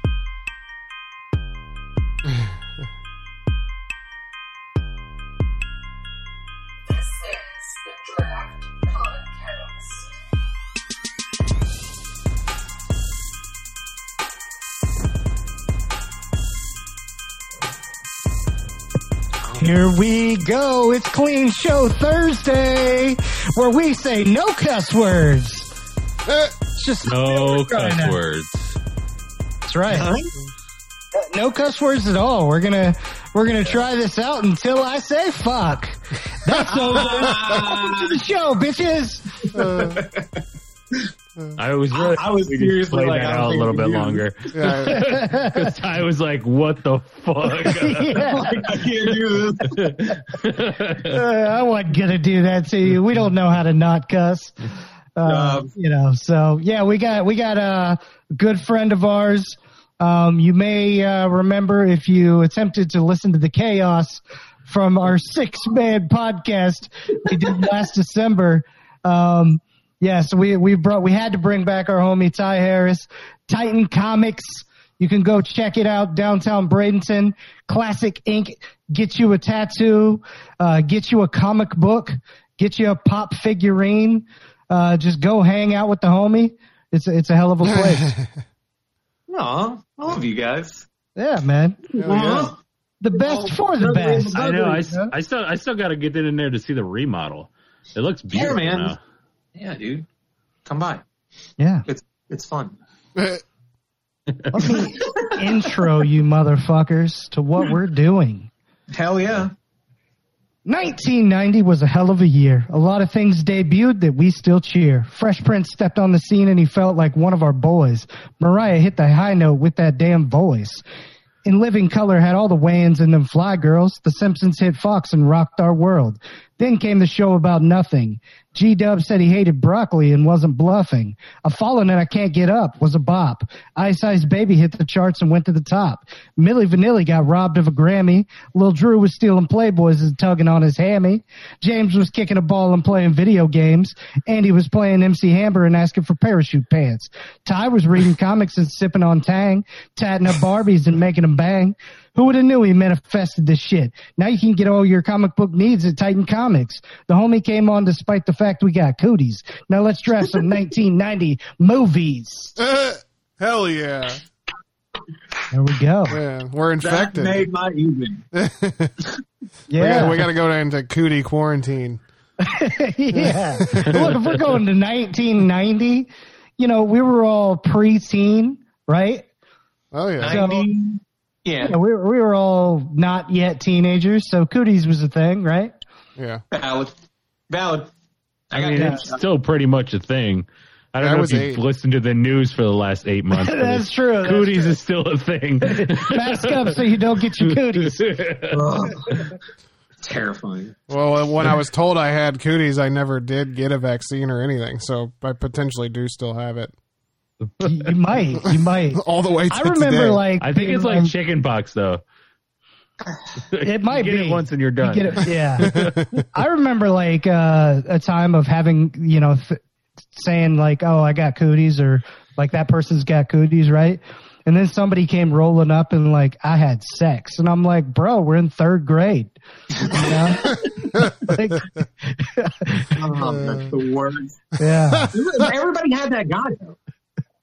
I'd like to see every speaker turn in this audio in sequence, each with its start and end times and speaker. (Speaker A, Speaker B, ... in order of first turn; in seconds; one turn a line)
Speaker A: 7.0-9.6
Speaker B: 19.5-25.7
Speaker C: 26.3-26.5
Speaker B: 26.8-28.2
Speaker D: 27.1-28.7
Speaker B: 29.7-30.1
Speaker E: 29.9-30.3
Speaker B: 31.2-39.5
Speaker E: 36.6-38.2
Speaker C: 39.5-40.0
Speaker E: 39.5-40.4
Speaker D: 41.5-48.3
Speaker E: 41.9-44.2
Speaker C: 44.5-45.1
Speaker B: 44.9-45.7
Speaker B: 47.6-48.6
Speaker E: 48.3-49.9
Speaker D: 49.6-51.2
Speaker B: 51.0-54.6
Speaker B: 55.2-88.1
Speaker E: 55.2-55.7
Speaker C: 87.7-88.3
Speaker E: 89.3-90.9
Speaker B: 91.2-95.1
Speaker C: 92.0-92.5
Speaker E: 92.0-92.6
Speaker E: 93.1-94.9
Speaker D: 94.5-99.0
Speaker E: 98.3-99.0
Speaker E: 99.6-100.1
Speaker E: 100.7-101.0
Speaker B: 101.6-101.9
Speaker E: 101.9-102.8
Speaker C: 103.2-103.4
Speaker B: 104.5-108.5
Speaker E: 104.7-105.6
Speaker E: 108.9-109.5
Speaker B: 110.7-120.8
Speaker B: 121.5-162.6
Speaker C: 162.6-164.2
Speaker B: 165.5-166.2
Speaker C: 166.1-167.5
Speaker E: 166.8-168.2
Speaker C: 168.3-169.0
Speaker B: 169.7-170.2
Speaker C: 169.7-172.0
Speaker B: 172.4-179.3
Speaker C: 173.1-174.2
Speaker C: 179.9-180.4
Speaker E: 180.2-181.8
Speaker B: 180.2-180.7
Speaker B: 181.6-185.7
Speaker C: 186.2-186.4
Speaker E: 186.5-186.9
Speaker E: 187.5-187.9
Speaker E: 188.5-189.2
Speaker D: 188.5-196.8
Speaker B: 188.7-189.1
Speaker C: 191.0-191.6
Speaker B: 193.3-194.8
Speaker B: 195.7-198.0
Speaker D: 197.4-198.8
Speaker E: 198.5-199.3
Speaker E: 200.0-200.8
Speaker C: 200.9-206.7
Speaker B: 207.6-211.1
Speaker C: 208.4-210.2
Speaker D: 210.4-212.0
Speaker D: 213.5-216.0
Speaker B: 213.6-215.7
Speaker C: 215.6-216.3
Speaker B: 216.3-219.6
Speaker B: 220.1-230.6
Speaker E: 229.8-230.6
Speaker C: 230.5-231.8
Speaker B: 231.2-233.0
Speaker E: 232.9-234.4
Speaker C: 233.2-233.7
Speaker B: 234.6-235.1
Speaker C: 234.7-235.5
Speaker E: 235.1-236.8